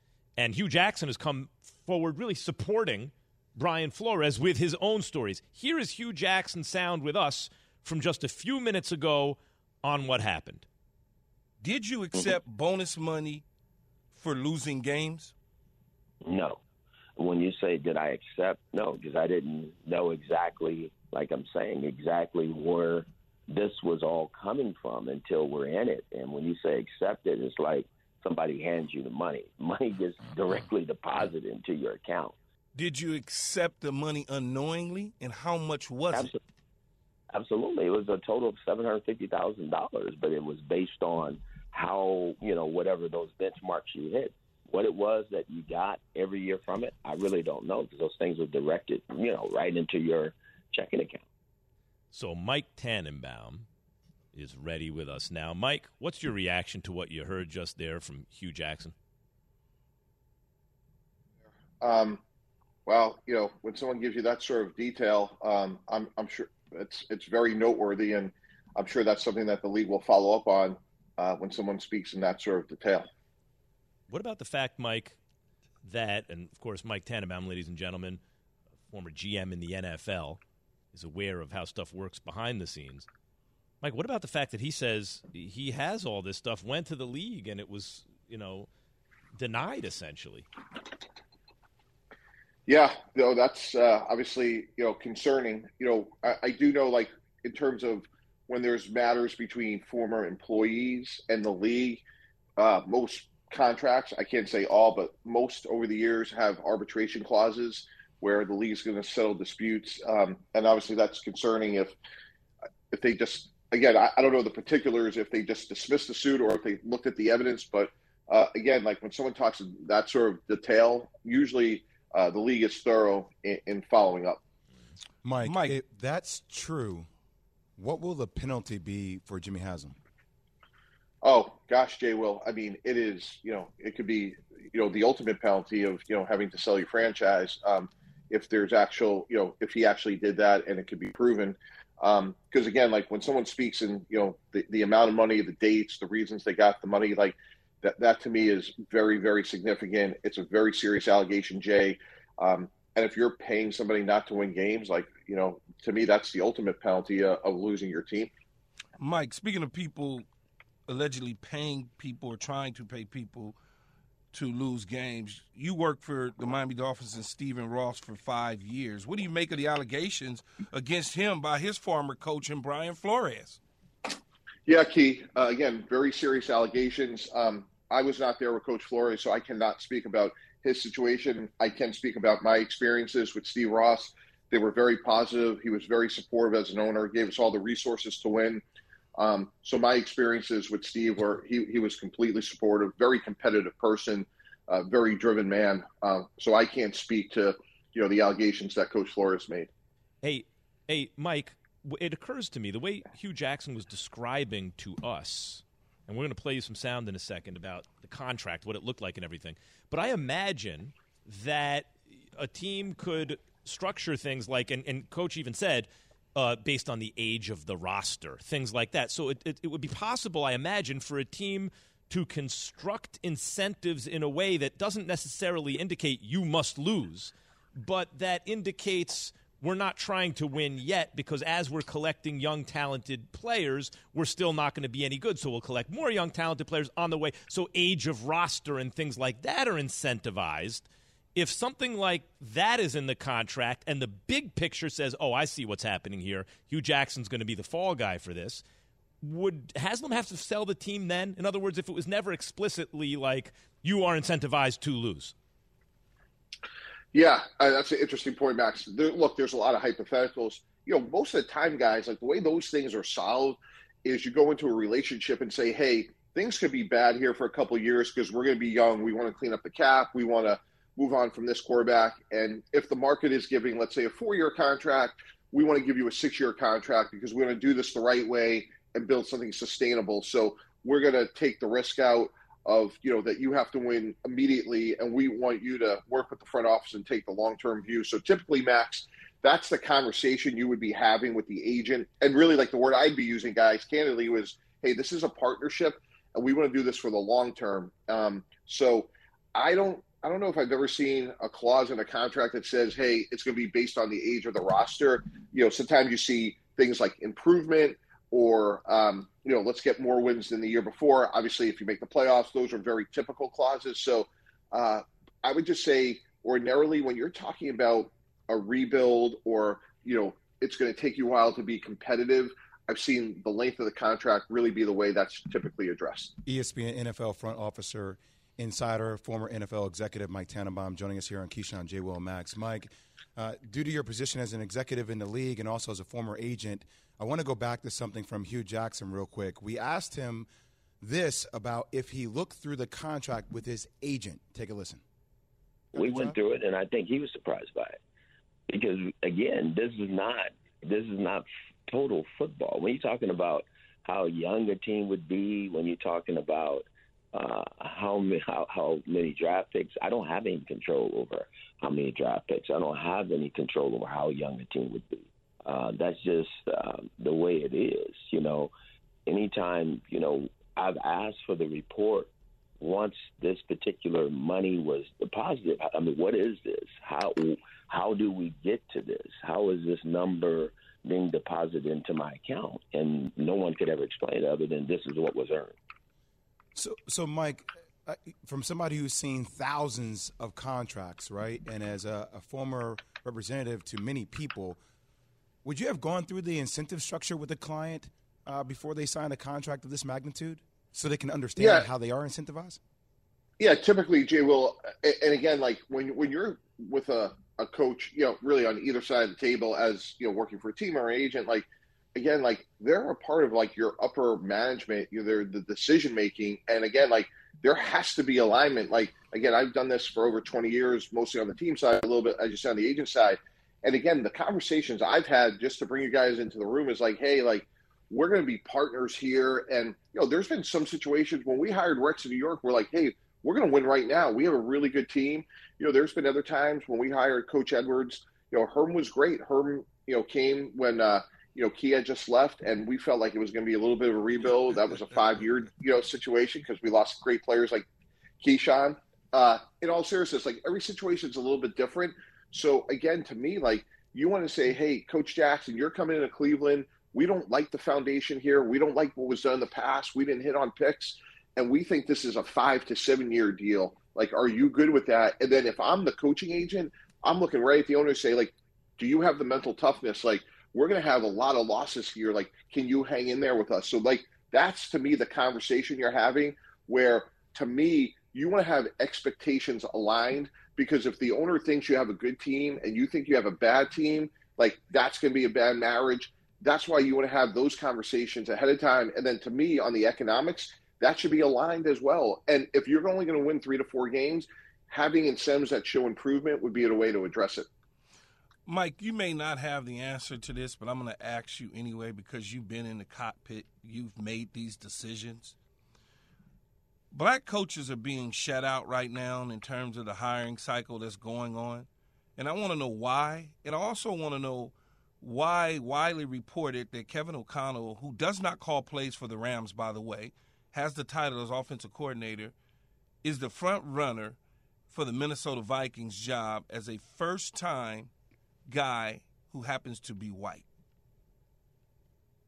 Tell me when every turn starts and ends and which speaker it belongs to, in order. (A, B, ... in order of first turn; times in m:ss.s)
0:00.4-0:10.6 A
0:11.6-0:13.4 B
0:14.1-0:15.3 B
0:16.2-0:16.6 C
0:17.2-0:32.4 C
0:32.7-0:36.3 B
0:36.1-0:36.4 C
0:37.3-0:51.2 C
0:52.1-0:53.7 A
0:54.3-0:58.9 A
1:01.8-1:02.2 D
1:02.8-1:13.1 D
1:14.1-1:15.2 A
1:15.8-1:18.2 A
1:18.9-1:20.4 A
1:20.9-1:23.1 A
1:23.8-1:28.7 A
1:29.3-1:30.5 A
1:32.7-1:42.0 D
1:42.6-1:51.9 D
1:52.9-2:04.4 D
2:05.2-2:07.1 E
2:05.4-2:05.8 B
2:07.8-2:10.0 E
2:11.2-2:38.3 D
2:39.0-2:40.2 B
2:40.9-2:43.6 B
2:44.3-2:53.6 B
2:54.7-3:08.6 D
3:09.2-3:19.7 D
3:20.2-4:08.6 A
4:09.2-4:15.3 A
4:17.1-5:26.3 D
5:26.4-5:40.5 E
5:41.0-5:45.0 E
5:45.9-5:46.3 E
5:46.0-5:48.0 C
5:48.7-6:08.7 C
6:09.3-6:25.8 C
6:26.7-6:34.8 E
6:35.6-6:42.8 E
6:41.6-6:41.8 D
6:43.6-7:27.8 D
7:28.4-8:17.7 D
8:18.7-8:25.5 B
8:27.1-8:42.5 B
8:43.2-8:44.4 B
8:44.9-8:48.1 B
8:48.7-8:50.6 B